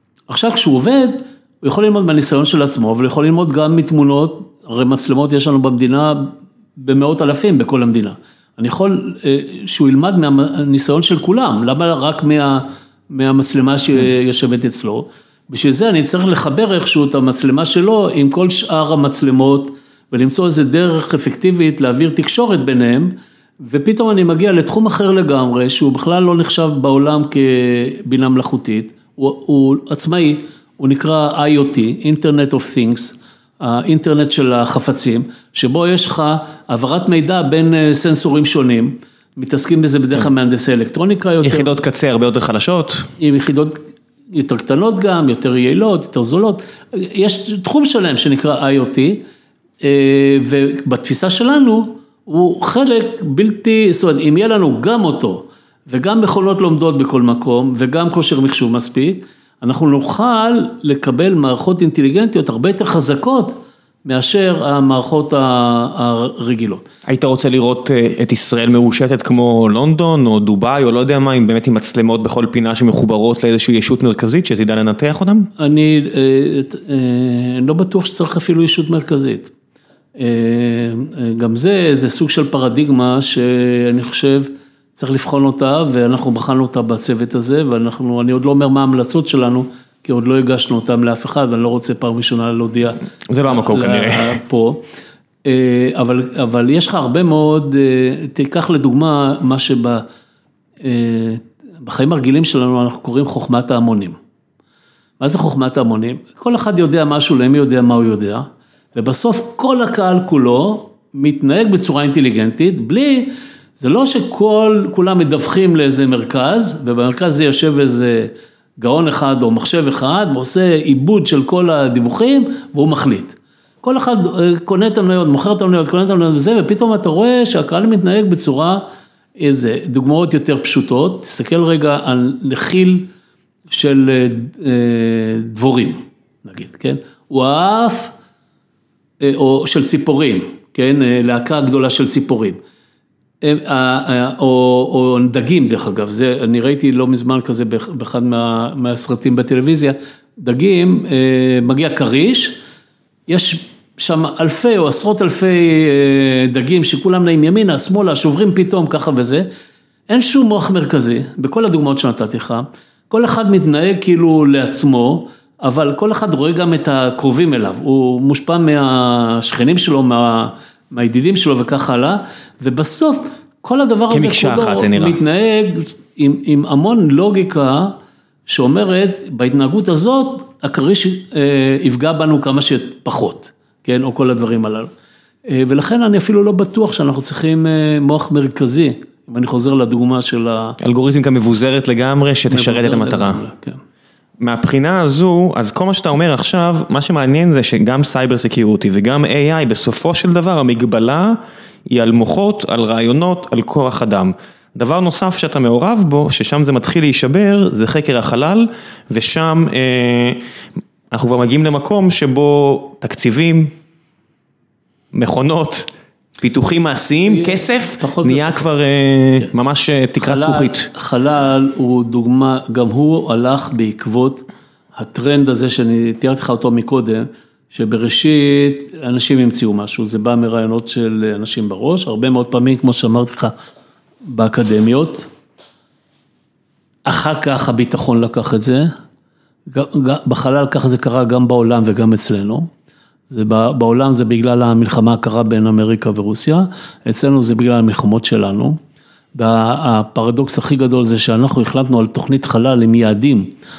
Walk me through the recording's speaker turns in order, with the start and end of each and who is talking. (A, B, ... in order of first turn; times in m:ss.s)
0:00.3-0:41.8 A
0:41.4-0:43.1 B
0:43.2-0:49.2 A
0:49.8-1:06.8 A
1:07.1-1:15.5 B
1:15.6-1:19.5 A
1:20.2-1:34.8 A
1:33.3-1:34.4 B
1:35.4-1:40.0 A
1:40.8-1:44.2 A
1:45.2-2:08.8 A
2:09.4-2:13.1 A
2:13.7-2:18.1 A
2:19.2-2:22.6 A
2:23.4-2:32.6 A
2:33.3-2:39.5 A
2:40.1-2:58.0 A
2:54.1-2:55.2 B
2:58.5-3:04.9 A
3:05.5-3:10.8 A
3:10.8-3:13.4 B
3:12.5-3:13.8 A
3:14.4-3:30.4 B
3:31.1-3:33.7 B
3:35.1-3:35.9 B
3:36.4-3:40.9 B
3:37.2-3:38.7 A
3:40.2-3:53.5 A
3:54.2-3:55.3 A
3:57.0-3:58.9 A
3:59.7-4:02.7 A
4:03.3-4:08.8 A
4:09.4-4:13.5 A